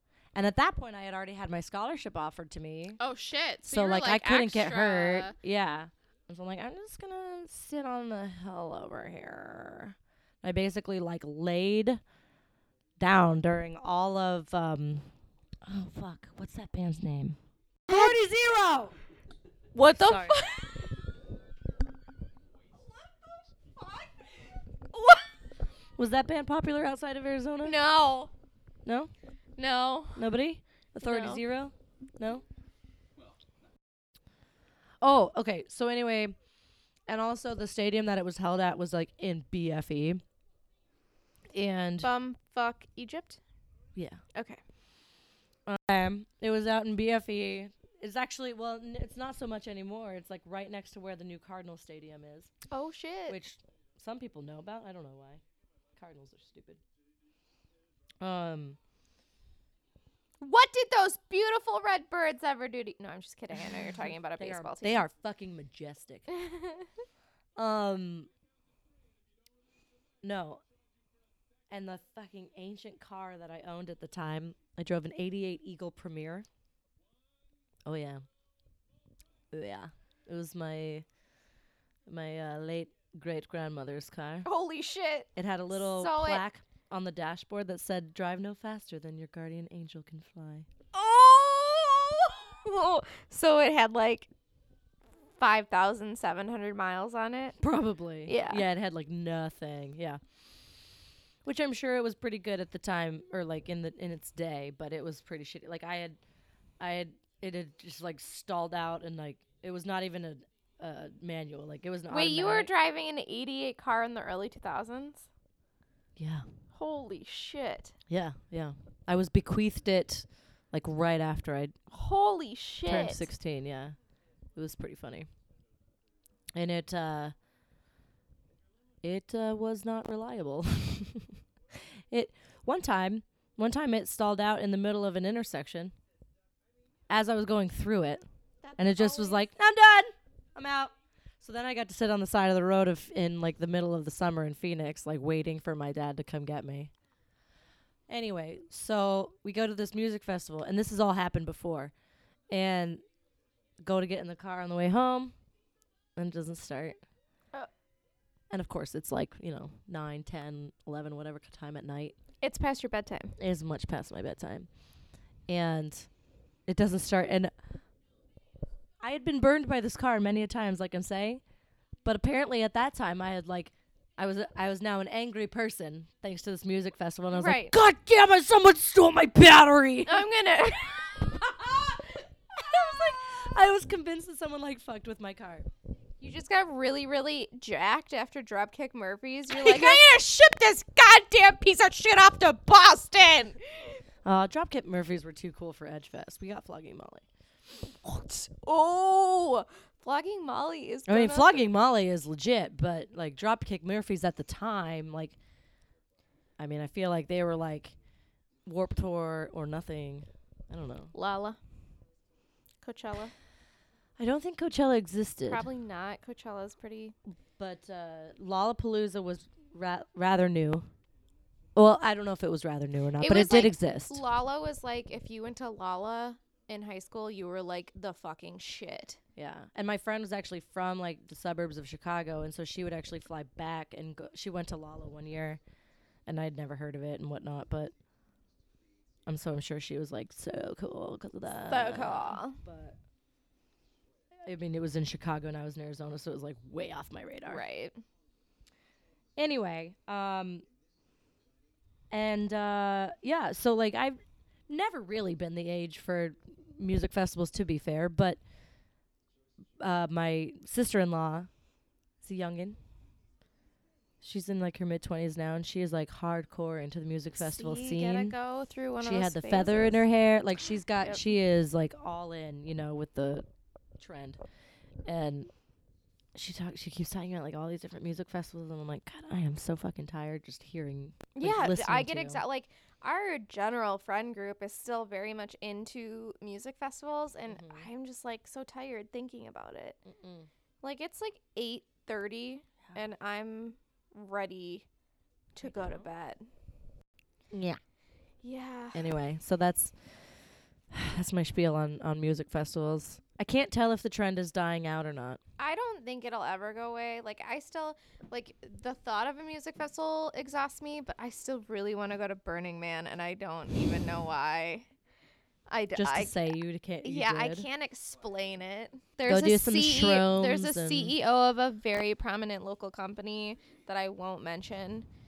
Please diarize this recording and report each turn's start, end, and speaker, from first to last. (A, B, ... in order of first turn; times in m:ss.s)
0:00.3-0:03.0 A
0:03.0-0:05.3 B
0:03.6-0:12.0 A
0:13.0-0:15.1 A
0:15.6-0:18.9 A
0:17.9-0:18.3 B
0:19.7-0:21.0 B
0:19.8-0:20.4 A
0:24.9-0:25.2 B
0:26.0-0:27.8 A
0:27.6-0:28.3 B
0:28.8-0:29.1 A
0:29.6-0:30.3 B
0:30.2-0:32.4 A
0:31.0-0:31.4 B
0:35.0-0:36.4 A
0:37.1-0:40.2 A
0:41.5-0:42.1 A
0:42.0-0:43.4 B
0:43.9-0:44.2 A
0:44.3-0:44.6 B
0:45.6-0:52.5 A
0:52.7-0:53.4 B
0:53.3-0:55.4 A
0:56.0-0:56.8 A
0:58.2-0:58.8 A
1:00.4-1:05.0 B
1:04.4-1:06.3 A
1:06.3-1:06.9 B
1:07.6-1:08.3 A
1:10.2-1:10.6 A
1:11.7-1:16.5 A
1:17.9-1:18.2 A
1:19.5-1:21.0 A
1:22.1-1:24.5 A
1:24.4-1:26.4 B
1:25.3-1:30.7 A
1:30.9-1:34.3 B
1:35.4-1:37.6 B
1:37.6-1:40.2 A
1:38.3-1:38.6 B
1:41.4-1:46.2 A
1:46.8-1:52.7 A
1:52.1-1:55.3 B
1:56.2-1:56.4 A
1:56.7-1:57.9 B
1:58.1-2:01.7 A
2:01.9-2:03.3 B
2:02.9-2:04.0 A
2:04.6-2:05.3 A
2:06.5-2:07.3 A
2:09.0-2:15.9 A
2:17.1-2:18.2 A
2:18.6-2:19.4 B
2:18.8-2:26.9 A
2:28.1-2:31.9 A
2:32.5-2:33.0 A
2:33.8-2:35.3 A
2:36.2-2:37.0 A
2:38.5-2:42.1 A
2:42.4-2:43.3 B
2:43.4-2:44.7 A
2:45.5-2:46.1 A
2:46.7-2:47.5 A
2:49.0-2:51.4 A
2:52.0-3:00.3 A
2:57.3-2:57.7 B
3:00.1-3:01.5 B
3:01.3-3:05.7 A
3:06.2-3:14.0 B
3:09.5-3:10.1 A
3:14.2-3:17.2 A
3:18.0-3:21.6 B
3:21.1-3:25.4 A
3:26.6-3:28.0 A
3:28.6-3:31.1 A
3:31.1-3:31.6 B
3:32.8-3:33.3 B
3:34.2-3:35.7 A
3:35.5-3:37.1 B
3:37.6-3:40.9 A
3:41.7-3:44.2 A
3:43.2-3:49.2 B
3:49.4-3:55.6 A
3:56.3-3:57.9 A
3:59.3-4:03.0 A
4:01.7-4:02.6 B
4:04.4-4:07.6 A
4:07.5-4:08.0 B
4:09.4-4:10.6 A
4:12.1-4:18.4 A
4:19.8-4:21.5 A
4:22.2-4:22.8 A
4:24.2-4:28.3 A
4:27.3-4:30.0 B
4:29.0-4:33.4 A
4:34.0-4:34.4 A
4:35.0-4:35.5 A
4:36.3-4:42.4 A
4:41.3-4:50.0 B
4:47.5-4:47.9 A
4:50.0-4:50.5 A
4:50.8-4:54.9 B
4:55.6-4:56.5 B
4:55.6-4:56.0 A
4:57.5-4:57.8 A
4:58.4-4:59.1 B
4:58.9-5:00.3 A
5:00.9-5:05.4 A
5:05.6-5:14.9 B
5:15.7-5:16.5 B
5:15.9-5:17.7 A
5:17.0-5:25.0 B
5:19.3-5:21.1 A